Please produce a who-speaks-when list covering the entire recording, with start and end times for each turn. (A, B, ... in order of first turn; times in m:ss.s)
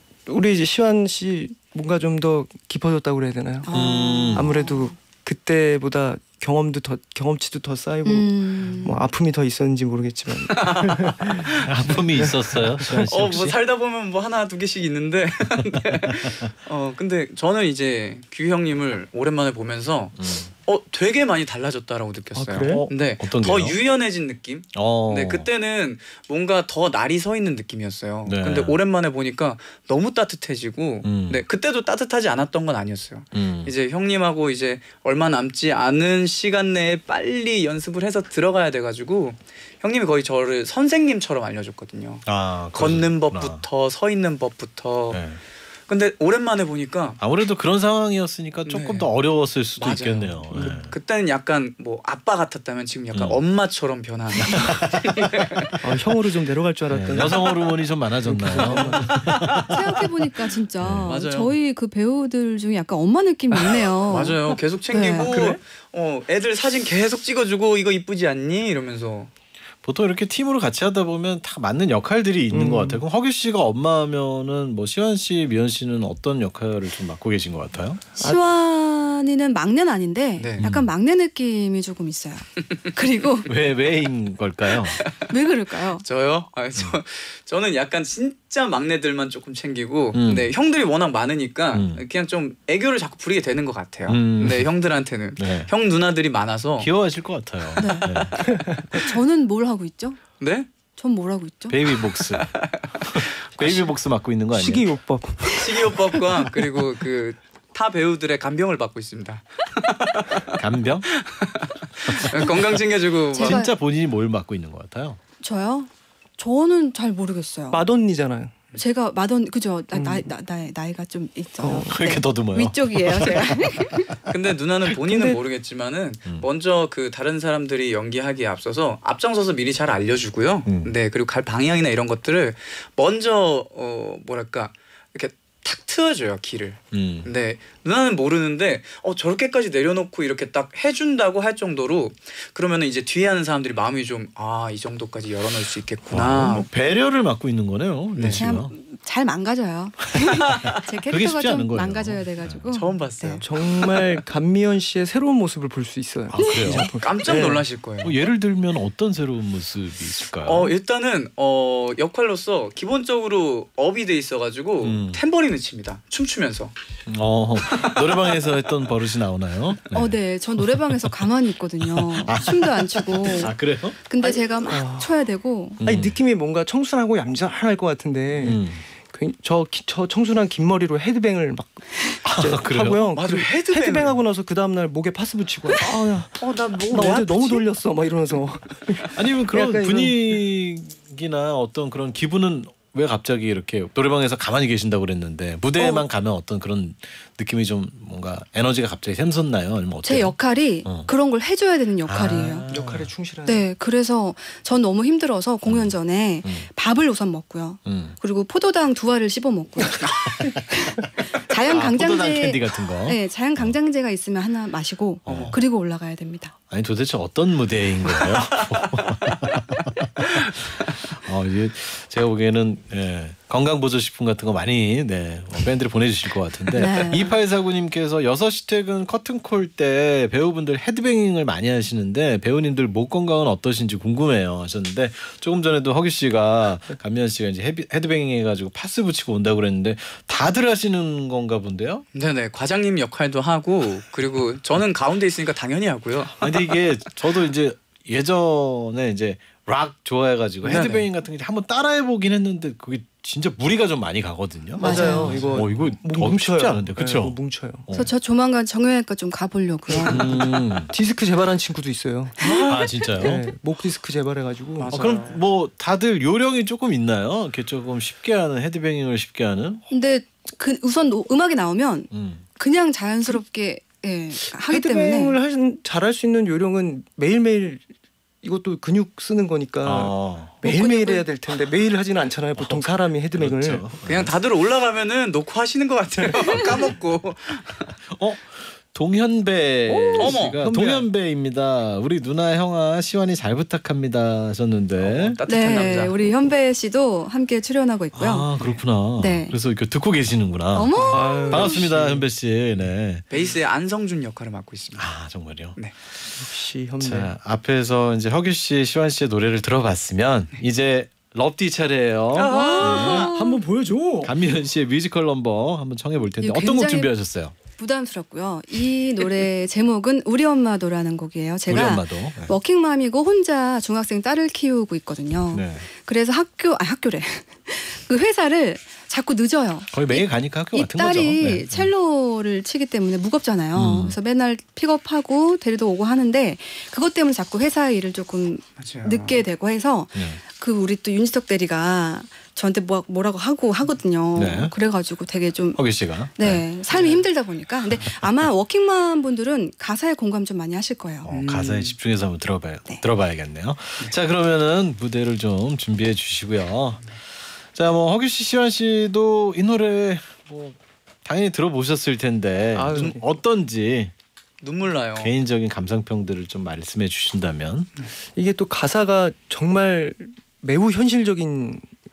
0:00.3-0:03.7 A
0:03.6-0:04.9 B
0:03.7-0:04.5 C
0:04.3-0:08.3 A
0:08.0-0:09.0 B
0:08.8-0:11.5 A
0:10.5-0:12.0 D
0:11.6-0:13.6 C
0:12.2-0:13.0 A
0:12.9-0:45.2 D
0:20.2-0:20.5 C
0:22.4-0:22.9 A
0:22.6-0:23.8 C
0:24.7-0:25.5 C
0:28.2-0:28.8 C
0:31.0-0:31.4 C
0:33.3-0:33.7 C
0:42.3-0:43.6 C
0:45.1-0:45.4 C
0:45.9-0:47.2 D
0:47.2-0:50.9 C
0:48.7-0:49.1 D
0:49.8-0:55.7 D
0:53.1-0:53.4 C
0:54.4-0:55.8 C
0:55.8-0:57.7 A
0:56.9-1:00.0 C
0:58.2-0:59.3 A
0:58.5-0:59.6 D
0:59.7-1:05.4 B
1:00.8-1:01.2 C
1:01.1-1:01.6 D
1:03.6-1:09.3 D
1:05.3-1:05.6 A
1:09.8-1:18.0 C
1:12.5-1:13.0 A
1:18.2-1:23.5 B
1:20.4-1:20.7 D
1:20.6-1:20.9 C
1:23.5-1:25.0 C
1:25.1-1:26.0 B
1:26.0-1:36.9 D
1:30.1-1:30.5 C
1:31.7-1:32.0 C
1:34.1-1:34.7 C
1:35.4-1:35.7 C
1:36.8-1:38.6 C
1:37.8-1:40.2 B
1:38.1-1:38.6 D
1:40.4-1:40.7 D
1:41.0-1:41.8 B
1:41.7-1:44.8 C
1:42.2-1:43.9 D
1:44.5-1:46.5 A
1:45.5-1:50.6 D
1:50.6-1:51.1 C
1:51.1-1:53.6 D
1:52.1-1:52.8 C
1:53.3-1:53.7 B
1:53.4-1:55.2 C
1:55.4-1:57.8 B
1:57.7-1:58.6 A
1:58.8-2:04.2 B
1:59.9-2:00.3 A
2:01.6-2:02.0 A
2:01.9-2:04.2 C
2:04.3-2:26.7 D
2:05.0-2:05.4 A
2:10.7-2:10.9 C
2:16.9-2:17.3 C
2:26.1-2:28.7 C
2:28.2-2:28.4 D
2:28.3-2:33.4 B
2:30.6-2:32.6 C
2:32.7-2:33.6 D
2:33.4-2:37.6 A
2:36.3-2:36.9 C
2:36.4-2:36.9 B
2:37.0-2:38.2 D
2:38.0-2:40.7 C
2:40.4-2:46.7 D
2:44.8-2:45.2 C
2:47.1-2:51.1 C
2:47.7-2:48.4 D
2:49.9-2:55.8 B
2:51.9-2:54.0 C
2:54.7-2:55.1 A
2:55.8-2:56.2 C
2:55.8-3:06.4 A
2:58.4-2:58.8 C
3:02.2-3:03.1 C
3:03.1-3:04.2 D
3:06.4-3:07.6 D
3:06.9-3:10.2 A
3:09.1-3:21.1 C
3:20.0-3:22.7 B
3:22.0-3:23.1 C
3:22.7-3:23.7 A
3:23.4-3:30.1 B
3:25.6-3:25.9 C
3:27.8-3:28.2 C
3:30.4-3:31.1 C
3:30.7-3:36.5 B
3:31.6-3:33.7 C
3:35.3-3:35.6 C
3:36.7-4:02.0 C
3:46.7-3:47.4 B
4:02.1-4:06.8 D
4:06.4-4:18.1 C
4:10.6-4:11.1 D
4:14.8-4:15.4 B
4:14.8-4:17.9 A
4:15.3-4:15.6 D
4:17.9-4:20.4 B
4:19.9-4:25.0 A
4:20.1-4:20.9 C
4:22.4-4:22.8 D
4:22.4-4:22.9 B
4:22.7-4:23.5 C
4:24.8-4:25.4 D
4:24.9-4:29.8 C
4:29.9-4:35.4 B
4:32.1-4:32.4 C
4:34.6-4:37.9 A
4:38.4-4:43.8 A
4:39.8-4:40.6 C
4:40.6-4:41.3 B
4:42.6-4:44.4 C
4:44.1-4:48.0 D
4:48.1-4:55.4 C
4:49.9-4:50.2 B
4:50.2-4:51.0 D
4:55.0-4:56.3 D
4:55.5-4:58.5 B
4:58.1-5:03.3 C
4:59.2-4:59.6 B
5:00.7-5:01.9 B
5:00.9-5:01.3 D
5:01.1-5:02.2 A
5:03.3-5:05.1 D
5:05.0-5:05.8 C
5:06.4-5:07.3 A
5:07.0-5:13.3 C
5:12.4-5:13.2 D
5:12.4-5:14.3 A
5:12.4-5:13.6 B
5:14.2-5:17.5 C
5:16.4-5:17.1 B
5:17.8-5:51.3 B
5:21.7-5:22.6 C
5:25.5-5:25.9 C
5:29.9-5:31.9 C
5:33.8-5:34.2 C
5:38.8-5:39.4 D
5:40.1-5:40.4 C
5:44.4-5:44.7 C
5:45.8-5:46.6 C
5:46.9-5:47.2 D
5:51.2-5:57.2 C
5:51.3-5:52.0 D
5:57.7-6:04.1 C
6:02.7-6:03.2 A
6:02.9-6:03.2 D
6:04.6-6:05.3 D
6:05.2-6:07.9 C
6:08.4-6:11.8 A